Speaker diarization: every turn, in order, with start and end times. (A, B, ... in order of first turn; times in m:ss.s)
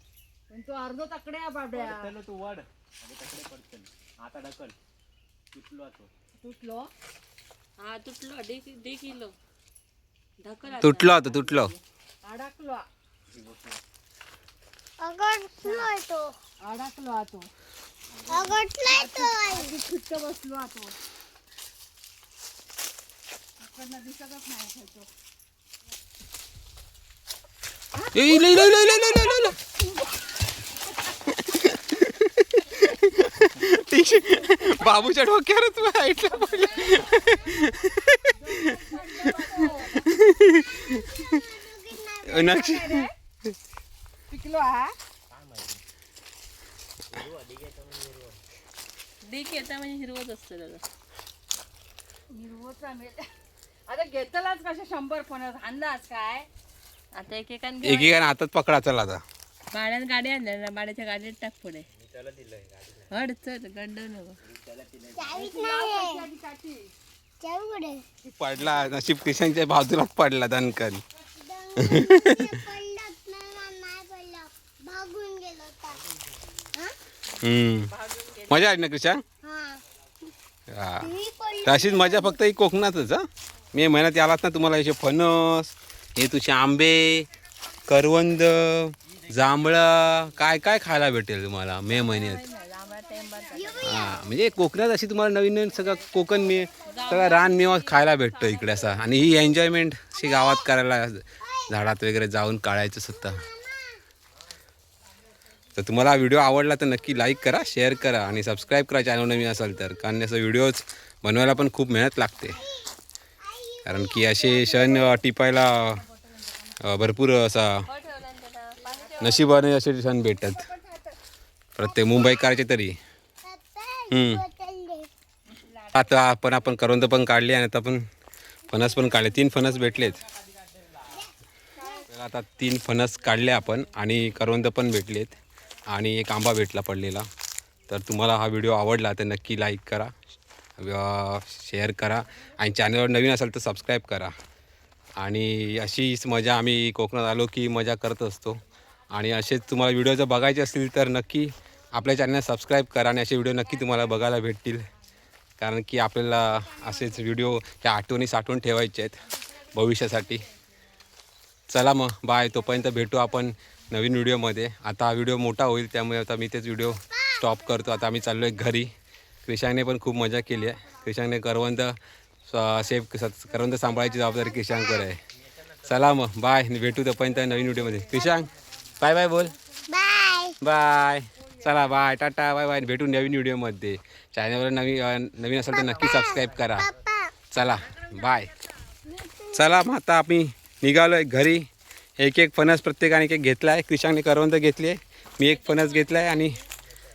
0:00.5-0:02.1 A
0:01.7-0:04.8 B
0:05.5-0:06.1 B
0:06.4-0:06.9 A
0:07.8-0:09.4 C
0:10.4-0:11.8 C
0:10.8-0:11.7 D
0:12.2-0:12.9 A
0:13.3-0:13.8 B
0:15.0-0:16.4 E
0:15.6-0:15.9 A
0:16.6-0:17.5 A
0:18.1-0:18.6 B
0:18.3-0:19.7 E
0:18.8-0:20.9 A
0:23.6-0:25.1 A
0:28.1-0:29.5 D
0:28.3-0:29.5 E
0:31.5-0:38.5 D
0:36.4-0:37.0 C
0:38.3-0:40.2 A
0:39.0-0:39.8 C
0:39.3-0:41.4 D
0:40.5-0:43.1 E
0:42.2-0:43.5 D
0:42.4-0:43.1 A
0:44.3-0:44.9 A
0:45.3-0:45.8 B
0:47.1-0:48.4 B
0:49.2-0:50.8 C
0:52.4-0:53.2 A
0:53.9-0:56.5 A
0:57.1-0:58.2 C
0:57.8-0:59.2 D
0:59.7-1:01.9 C
1:01.9-1:03.2 B
1:03.1-1:04.4 C
1:04.4-1:05.6 B
1:05.1-1:06.2 E
1:05.3-1:06.9 A
1:07.4-1:08.0 E
1:08.3-1:09.0 A
1:08.4-1:11.0 D
1:11.3-1:16.0 E
1:11.8-1:12.6 D
1:16.0-1:16.7 B
1:17.4-1:17.9 D
1:18.0-1:18.5 B
1:18.5-1:19.2 D
1:19.4-1:19.8 E
1:20.7-1:21.1 D
1:21.0-1:22.4 E
1:21.6-1:27.3 D
1:27.9-1:32.4 D
1:29.1-1:30.6 B
1:31.9-1:34.2 C
1:31.9-1:34.6 A
1:33.5-1:34.2 E
1:33.8-1:43.4 D
1:35.6-1:37.6 A
1:36.8-1:39.2 C
1:40.1-1:40.7 E
1:41.4-1:41.8 E
1:43.1-1:44.0 E
1:45.8-1:52.6 D
1:47.0-1:50.2 E
1:52.5-1:55.2 E
1:53.8-1:56.0 D
1:55.5-1:57.3 A
1:56.8-1:57.9 D
1:57.9-1:59.5 C
1:58.8-2:01.2 A
1:59.2-2:00.6 D
2:01.8-2:03.0 D
2:01.8-2:02.6 E
2:03.4-2:05.1 E
2:04.1-2:04.4 D
2:05.9-2:08.0 D
2:08.7-2:10.2 D
2:09.5-2:11.2 B
2:11.1-2:12.1 E
2:11.8-2:12.1 A
2:12.1-2:15.3 D
2:13.0-2:14.6 C
2:15.9-2:17.3 D
2:17.9-2:20.1 D
2:20.8-2:24.4 D
2:25.2-2:34.9 D
2:35.6-2:40.4 D
2:39.4-2:40.5 C
2:41.7-2:48.9 D
2:46.9-2:48.0 E
2:48.0-2:48.7 A
2:49.4-2:55.2 D
2:50.4-2:51.2 A
2:53.5-2:54.7 A
2:54.6-2:55.1 E
2:55.3-2:56.2 B
2:55.9-2:58.5 D
2:57.1-3:00.4 A
2:58.6-2:58.9 B
2:59.0-2:59.5 D
2:59.9-3:00.6 E
3:00.6-3:06.9 D
3:01.4-3:02.0 A
3:05.7-3:07.3 E
3:06.2-3:06.8 B
3:07.5-3:08.5 D
3:09.0-3:09.8 E
3:09.5-3:16.6 D
3:15.4-3:16.6 C